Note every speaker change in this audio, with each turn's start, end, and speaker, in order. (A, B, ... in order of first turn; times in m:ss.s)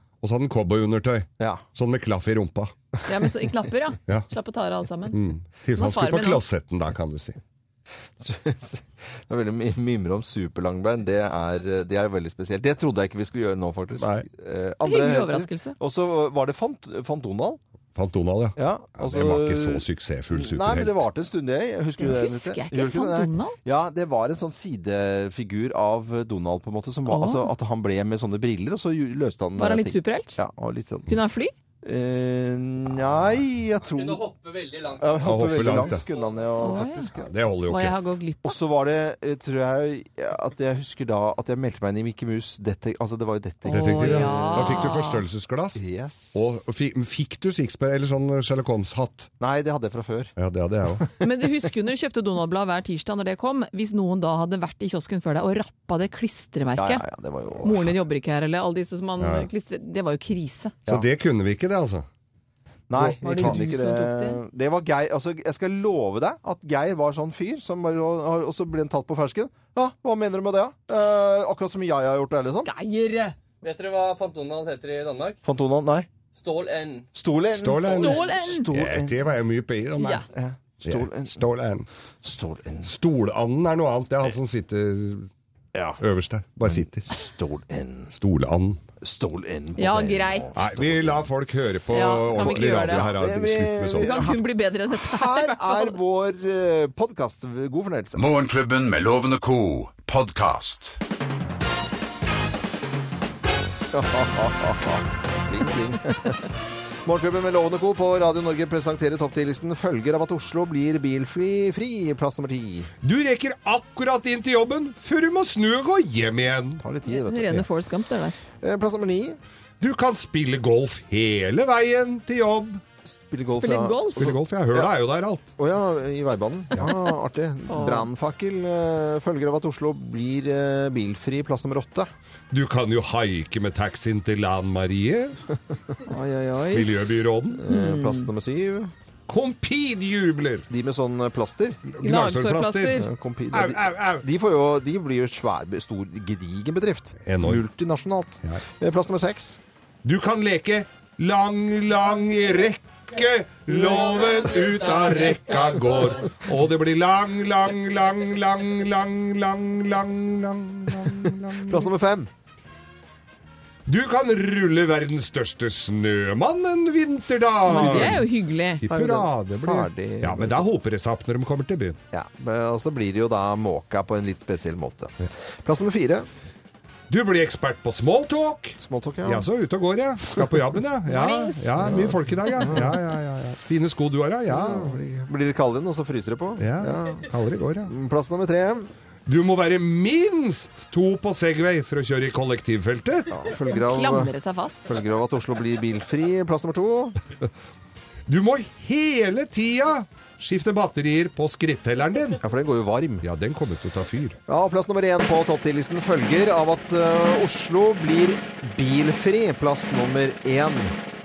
0:00.2-0:02.7 A
0:03.0-0:05.2 B
0:05.1-0:07.4 A
0:05.7-0:06.4 B
0:08.2-0:17.6 C
0:14.0-0:14.2 A
0:14.8-0:15.8 B
0:17.9-0:21.0 A
0:18.6-0:31.1 C
0:22.0-0:23.5 B
0:27.1-0:27.5 B
0:29.6-0:30.4 B
0:31.1-0:31.5 B
0:31.8-0:34.2 C
0:33.8-0:36.5 D
0:35.0-0:37.3 C
0:35.2-0:36.0 A
0:36.6-0:37.1 B
0:37.2-0:38.0 A
0:37.7-0:38.6 B
0:38.4-0:44.8 C
0:43.6-0:45.2 B
0:43.7-0:45.8 A
0:45.8-0:46.4 C
0:46.3-0:49.3 A
0:49.4-0:50.3 C
0:50.4-0:51.0 A
0:51.2-0:57.0 B
0:56.8-0:57.9 C
0:57.6-1:00.7 B
0:59.2-0:59.5 A
1:00.9-1:02.0 A
1:02.9-1:12.7 C
1:03.0-1:03.5 A
1:03.2-1:04.4 B
1:12.6-1:13.3 B
1:13.6-1:15.4 D
1:15.4-1:16.1 C
1:16.3-1:17.1 D
1:17.1-1:19.2 C
1:17.5-1:20.2 A
1:17.8-1:18.6 B
1:20.0-1:20.2 B
1:20.3-1:21.3 C
1:20.8-1:21.8 A
1:22.2-1:22.9 C
1:22.8-1:25.3 A
1:25.7-1:26.0 C
1:26.0-1:27.1 A
1:26.7-1:28.1 C
1:28.1-1:28.8 A
1:29.0-1:31.2 C
1:29.8-1:30.5 B
1:30.5-1:34.3 A
1:31.9-1:33.1 B
1:32.4-1:34.4 C
1:34.0-1:36.0 B
1:34.9-1:38.2 C
1:38.2-1:41.0 E
1:43.9-1:46.4 C
1:47.0-1:52.9 C
1:53.0-1:56.8 A
1:56.8-1:57.6 C
1:57.1-1:58.4 B
1:58.6-1:59.4 C
1:59.8-2:02.8 A
2:03.3-2:04.9 C
2:03.5-2:04.3 B
2:04.2-2:05.5 A
2:05.6-2:12.1 C
2:07.7-2:08.1 B
2:12.5-2:15.4 A
2:16.1-2:17.0 B
2:16.7-2:17.6 A
2:17.6-2:18.9 C
2:17.7-2:18.3 B
2:19.3-2:20.6 A
2:20.7-2:21.8 C
2:21.9-2:23.0 A
2:22.0-2:23.0 B
2:23.0-2:29.6 C
2:23.5-2:24.2 A
2:27.2-2:27.6 A
2:30.0-2:41.9 A
2:41.6-2:42.3 C
2:43.8-2:48.3 A
2:47.6-2:48.8 B
2:47.7-2:48.2 C
2:48.8-2:52.0 A
2:48.9-2:50.6 C
2:52.1-2:56.3 C
2:57.1-3:05.0 A
2:58.8-2:59.5 C
3:01.1-3:01.9 B
3:02.6-3:02.9 C
3:04.5-3:07.3 C
3:06.6-3:07.9 A
3:07.8-3:08.9 C
3:09.3-3:13.3 A
3:13.3-3:14.3 C
3:13.7-3:14.9 B
3:14.8-3:17.2 C
3:18.3-3:22.4 A
3:22.4-3:23.2 C
3:23.2-3:24.4 A
3:24.5-3:30.9 C